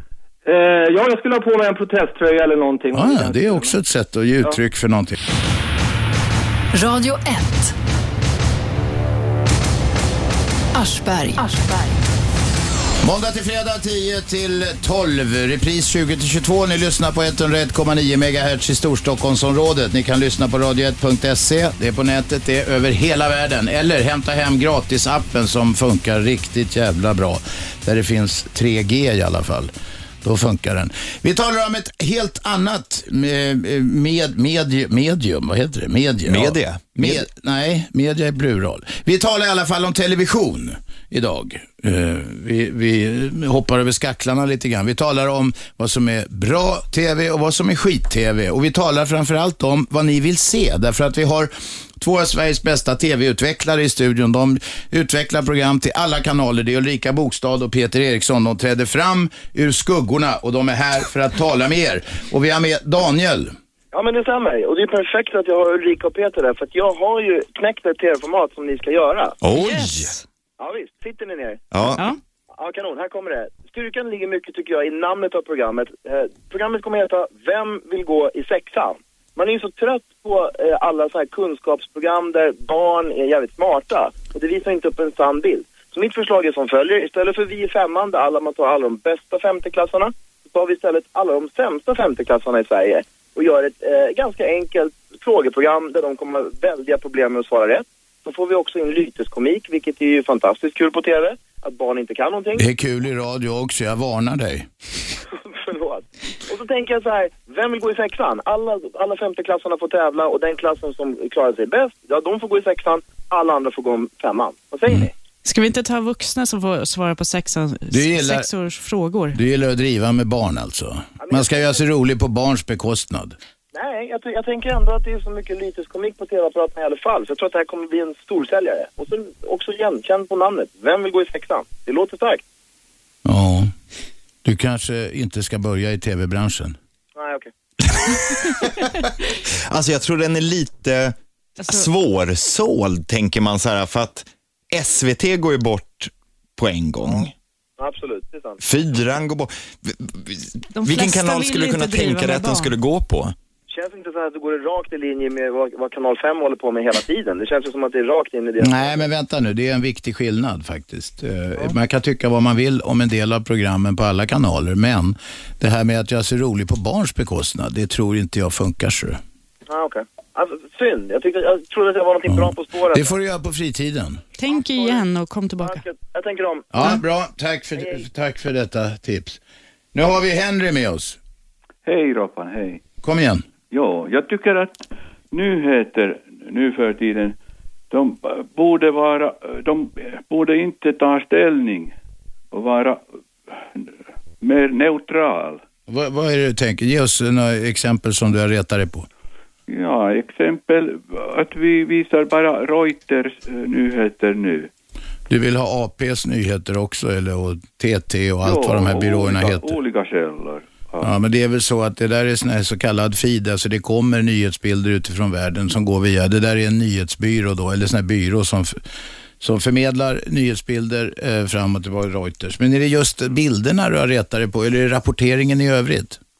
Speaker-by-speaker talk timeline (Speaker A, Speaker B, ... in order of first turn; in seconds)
Speaker A: 0.5-3.7
Speaker B: 2.9-5.2, 13.0-29.7, 30.2-63.5, 102.6-104.7, 117.9-118.5, 119.3-123.3, 133.2-133.7, 134.4-136.8, 158.6-169.2, 172.3-174.2, 176.7-179.4, 179.9-181.2, 183.0-183.4, 195.9-199.1, 205.3-209.8, 211.0-218.8, 219.4-226.2
Speaker C: 6.7-7.7, 10.7-12.0
Speaker D: 36.3-37.2, 69.4-70.1, 71.7-72.0, 137.9-138.6, 139.7-141.1, 141.7-147.3, 148.6-153.3
Speaker E: 63.9-69.4, 70.6-71.6, 72.6-102.7, 105.4-115.1, 121.2-121.8, 123.7-132.4, 137.1-137.5, 147.8-148.6, 153.7-159.1, 169.7-173.1, 174.5-175.0, 175.6-176.8, 177.8-178.0
Speaker F: 69.5-70.2, 115.4-119.4, 141.6-141.9, 150.7-152.7, 174.4-175.8
Speaker G: 181.8-182.8, 183.7-187.3, 187.9-191.9, 192.5-195.6, 199.7-204.7, 208.4-211.1